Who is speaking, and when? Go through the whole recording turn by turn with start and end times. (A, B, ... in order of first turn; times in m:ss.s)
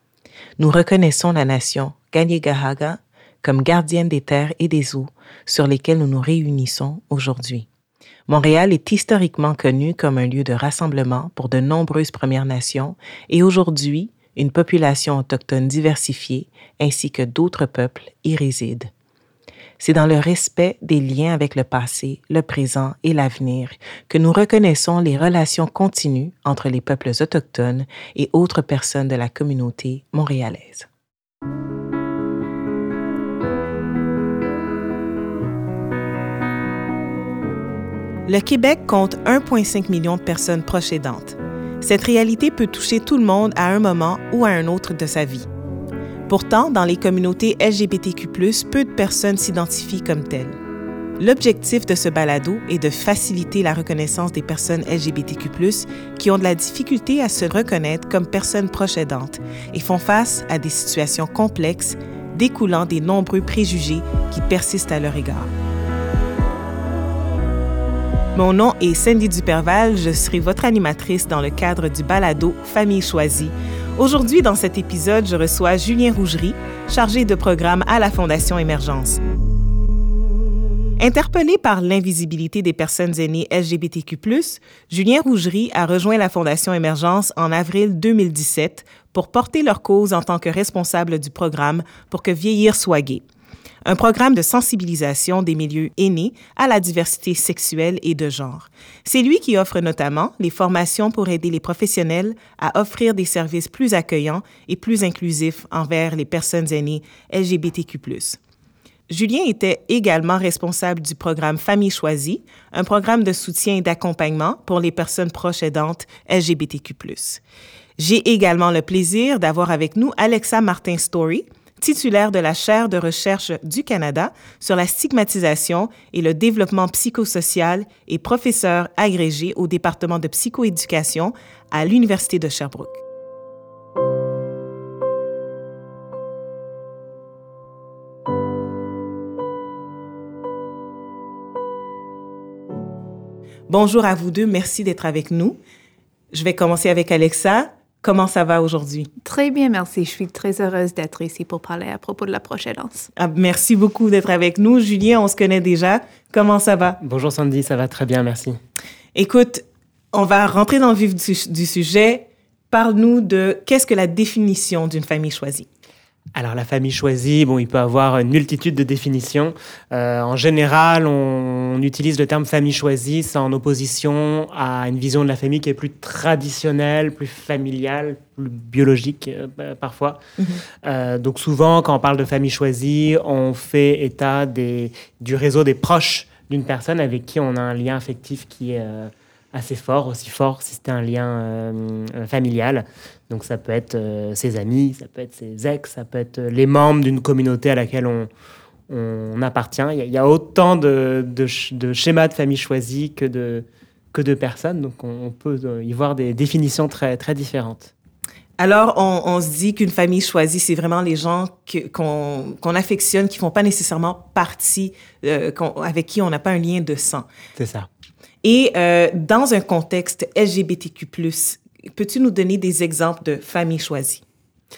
0:00.6-0:07.7 A
0:08.3-0:18.9 A
0:19.8-0:30.9 A
0:38.2-0:45.5 A
0:46.3-0:50.6 A
0:51.2-1:05.5 A
1:08.3-1:19.2 A
1:21.0-1:33.2 A
1:33.8-1:48.4 A
1:49.1-1:57.4 A
1:58.0-2:13.0 A
2:23.7-2:25.6 A
2:26.3-2:29.1 A
2:29.2-2:33.1 B
2:33.2-2:37.0 A
2:37.0-2:38.6 C
2:39.1-2:45.7 A
2:46.3-3:00.2 C
3:00.4-3:00.6 A
3:00.7-3:18.3 C
3:18.9-3:27.9 C
3:28.6-3:37.3 A
3:37.6-3:37.9 C
3:38.4-3:44.2 A